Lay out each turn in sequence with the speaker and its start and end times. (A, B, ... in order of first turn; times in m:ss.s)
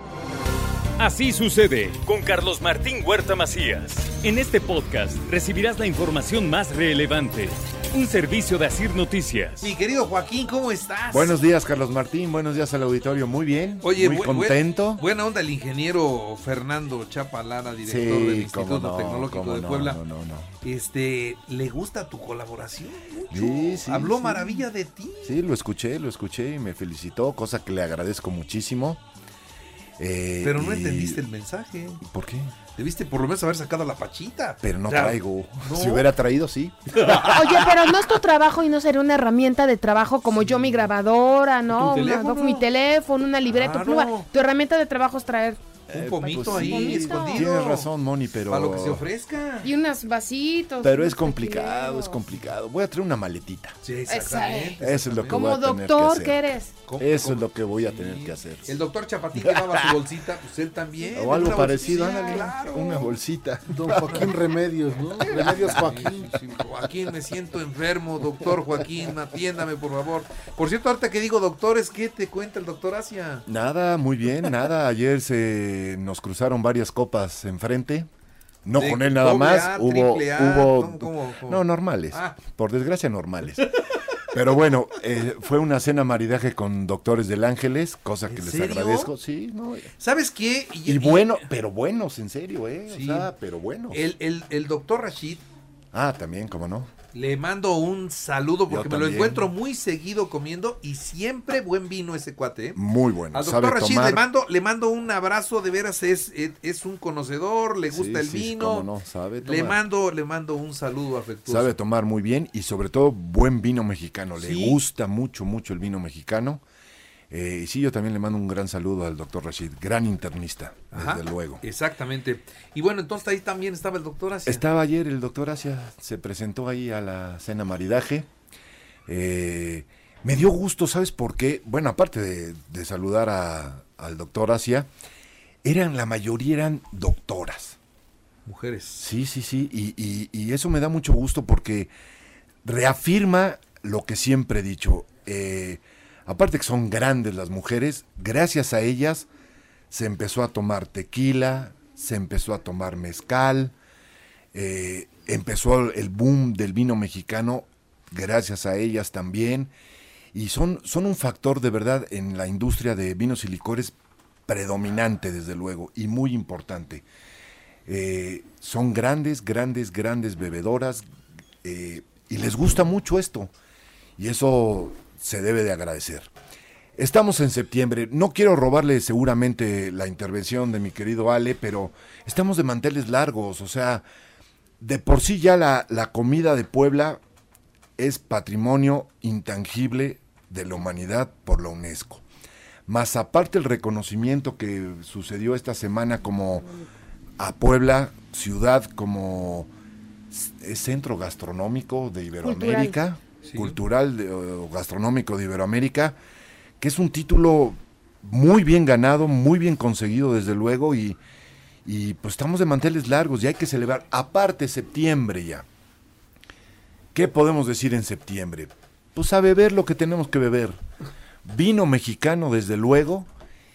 0:01.0-0:09.7 A
0:09.6-0:11.4 B
0:11.1-0:15.0 C
0:13.8-0:20.0 B
0:17.8-0:20.5 C
0:20.6-0:25.4 B
0:23.3-0:24.6 C
0:25.2-0:29.0 C
0:30.0-0:31.2 C
0:30.4-0:32.0 B
0:32.0-0:32.5 C
0:32.7-0:36.1 B
0:34.6-0:37.2 C
0:36.9-0:37.6 B
0:37.1-0:47.4 D
0:40.3-0:40.9 B
0:41.7-0:42.6 B
0:43.5-0:44.3 B
0:45.9-0:47.9 B
0:45.9-0:49.0 C
0:48.5-0:49.7 B
0:49.6-0:52.2 D
0:50.8-0:53.8 C
0:53.8-0:55.5 B
0:54.1-0:56.7 D
0:54.8-0:56.4 C
0:56.8-1:03.1 B
0:57.0-0:58.8 C
1:01.1-1:04.4 C
1:01.2-1:02.4 D
1:03.7-1:06.4 E
1:04.1-1:04.3 B
1:05.2-1:13.5 B
1:05.3-1:05.8 C
1:13.5-1:18.1 C
1:18.6-1:23.7 C
1:18.7-1:22.4 B
1:24.3-1:29.9 C
1:28.2-1:29.1 B
1:30.0-1:31.4 B
1:30.8-1:34.0 C
1:32.9-1:33.3 B
1:33.9-1:35.4 B
1:35.9-1:36.9 C
1:37.1-1:42.8 B
1:38.7-1:39.5 C
1:42.7-1:44.2 C
1:43.3-1:48.9 B
1:47.9-1:49.8 C
1:49.4-1:51.8 B
1:51.5-1:56.6 C
1:54.4-1:54.8 B
1:57.3-2:01.6 C
2:00.9-2:04.6 B
2:04.4-2:08.3 C
2:09.1-2:14.9 C
2:15.6-2:17.8 C
2:18.4-2:19.0 B
2:19.0-2:21.9 C
2:22.6-2:29.3 C
2:29.9-2:33.7 C
2:34.5-2:39.7 C
2:40.3-2:43.9 C
2:44.5-2:47.0 C
2:47.8-2:51.0 C
2:51.6-2:53.5 C
2:54.2-2:56.3 C
2:57.0-3:04.0 C
3:04.8-3:07.2 C
3:08.0-3:12.2 C
3:12.9-3:16.7 C
3:17.4-3:19.7 C
3:20.3-3:26.2 C
3:22.4-3:23.0 D
3:23.4-3:23.8 B
3:26.8-3:31.2 C
3:31.8-3:35.6 C
3:37.1-3:40.8 C
3:41.4-3:43.3 C